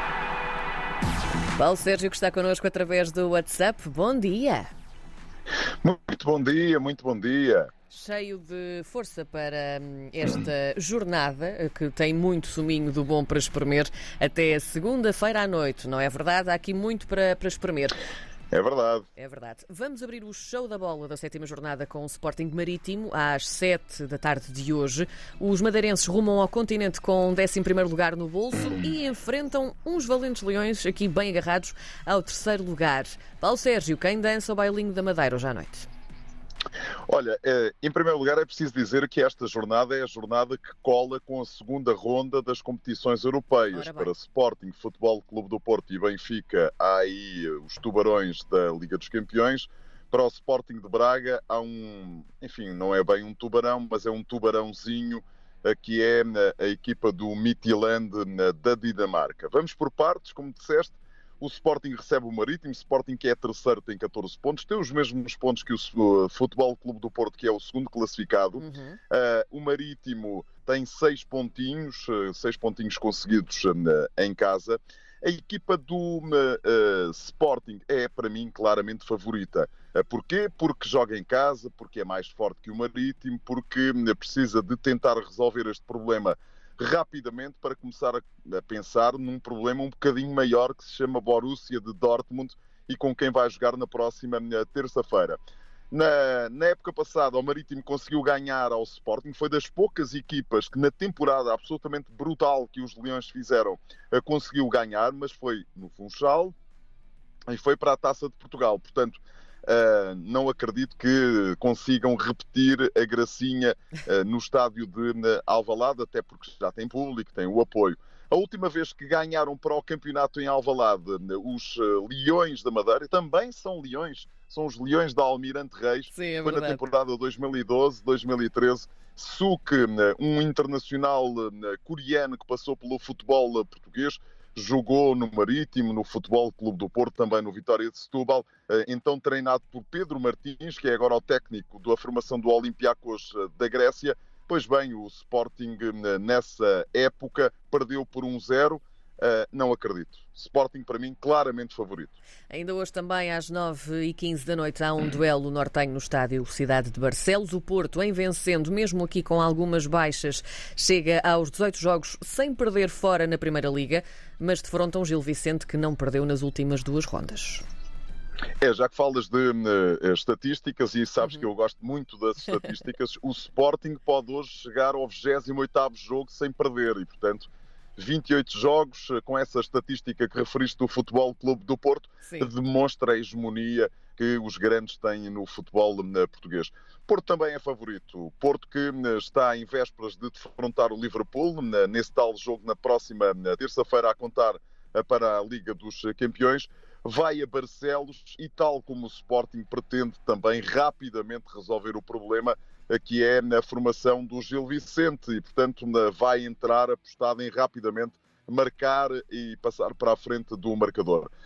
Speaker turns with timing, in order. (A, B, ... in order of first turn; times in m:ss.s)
0:01.6-0:04.7 A
0:05.8-0:07.7 B
0:07.9-0:18.0 A
0:18.5-0:19.0 B
0:19.2-0:35.9 A
0:37.1-1:35.4 B
0:43.7-0:44.1 A
1:08.6-1:09.0 A
1:35.9-1:46.5 B
1:47.5-2:32.2 B
2:06.1-2:06.8 A
2:32.5-2:47.6 A
2:48.6-3:31.3 B
3:02.2-3:02.5 A